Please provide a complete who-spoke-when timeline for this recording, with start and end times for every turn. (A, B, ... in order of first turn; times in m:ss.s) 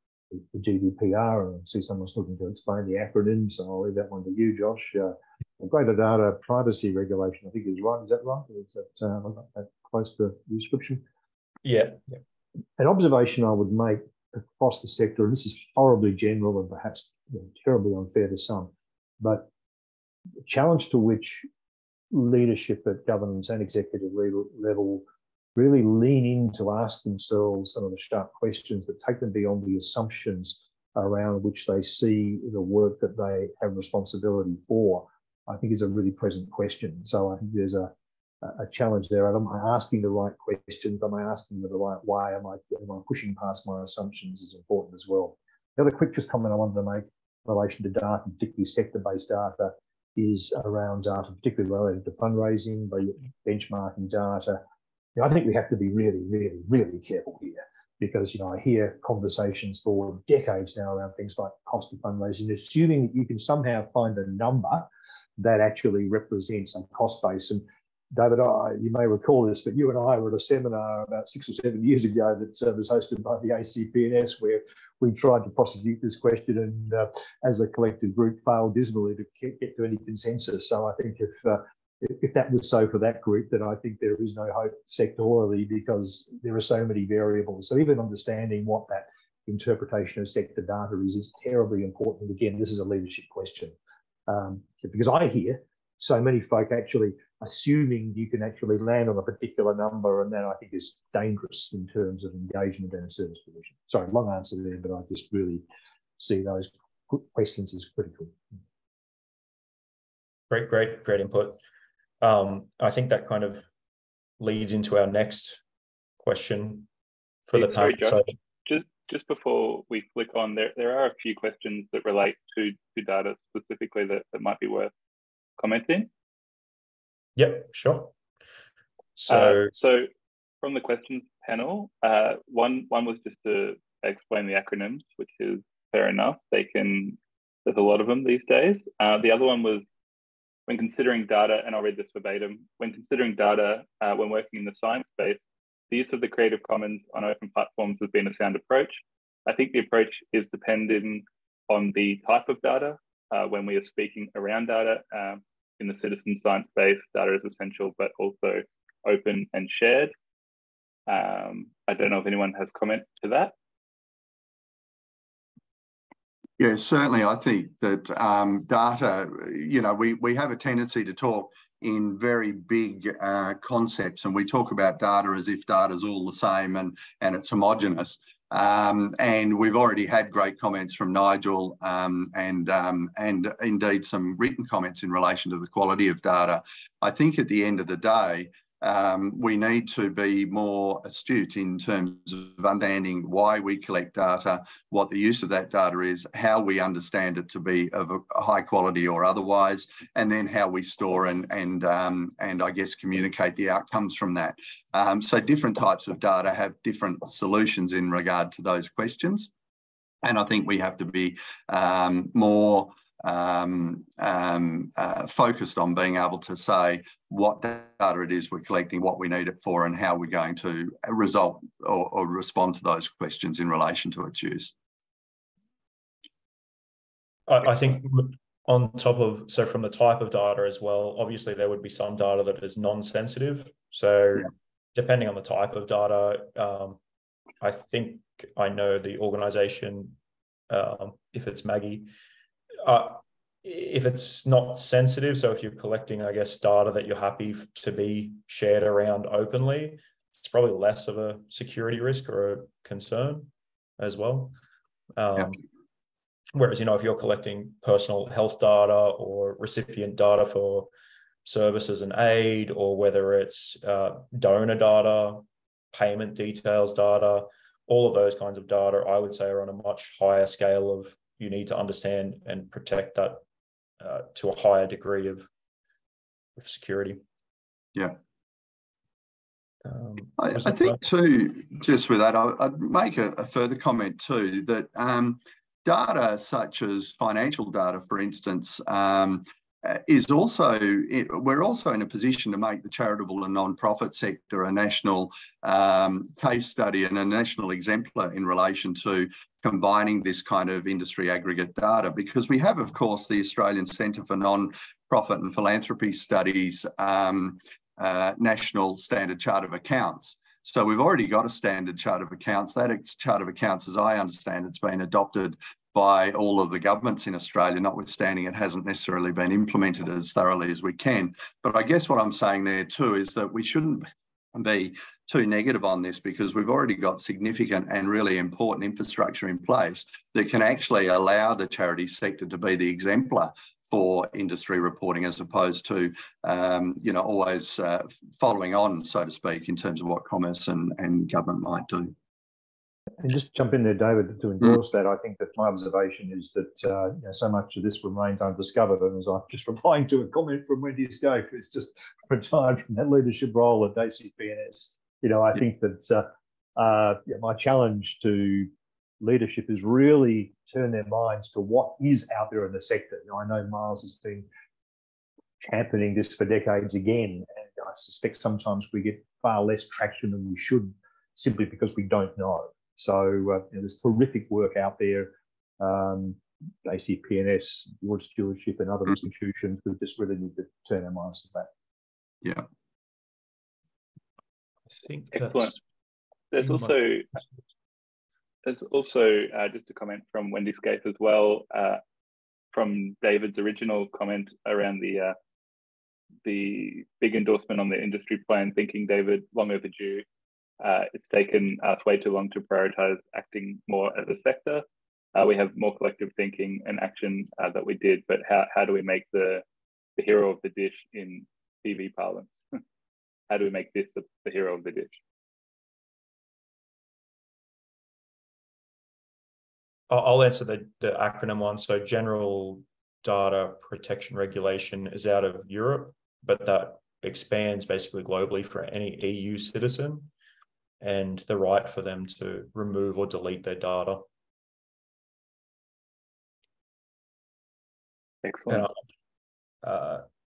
0:00.3-0:11.0 A
0:11.6-0:12.2 B
0:12.8-0:19.5 A
0:20.4-0:21.5 A
0:22.1-0:54.6 A
0:55.2-1:33.8 A
1:34.3-1:45.6 A
1:46.2-1:48.4 A
1:50.5-1:51.6 B
1:52.2-1:53.7 B
1:54.4-1:55.6 B
1:56.2-1:56.9 B
1:57.5-1:58.3 B
1:57.5-2:04.9 C
2:05.6-2:06.1 C
2:07.4-2:08.1 B
2:09.2-2:09.7 B
2:09.3-2:10.1 C
2:10.6-2:19.8 C
2:20.7-2:40.1 C
2:41.1-2:43.5 C
2:46.6-3:29.5 D
3:30.2-3:44.7 D
3:47.5-3:57.0 B
3:57.6-4:00.2 B
4:00.7-4:02.1 B
4:02.8-4:14.6 B
4:15.2-4:15.6 B
4:16.5-4:20.9 B
4:21.4-4:33.4 B
4:34.0-4:35.5 B
4:36.6-4:37.2 B
4:39.8-4:41.0 B
4:40.4-5:42.2 D
5:43.2-5:58.7 A
5:59.2-6:04.5 A
6:05.6-6:21.7 A
6:24.9-6:25.8 B
6:25.3-6:25.7 C
6:26.5-6:27.2 C
6:26.6-6:27.0 B
6:28.6-6:32.0 C
6:32.7-6:35.4 C
6:36.4-6:40.2 C
6:40.8-6:44.8 C
6:45.4-6:49.6 C
6:50.2-6:52.6 C
6:53.5-6:55.2 C
7:00.1-7:10.3 B
7:11.0-7:14.2 B
7:18.4-7:18.9 C
7:18.7-7:19.0 B
7:19.8-7:20.2 B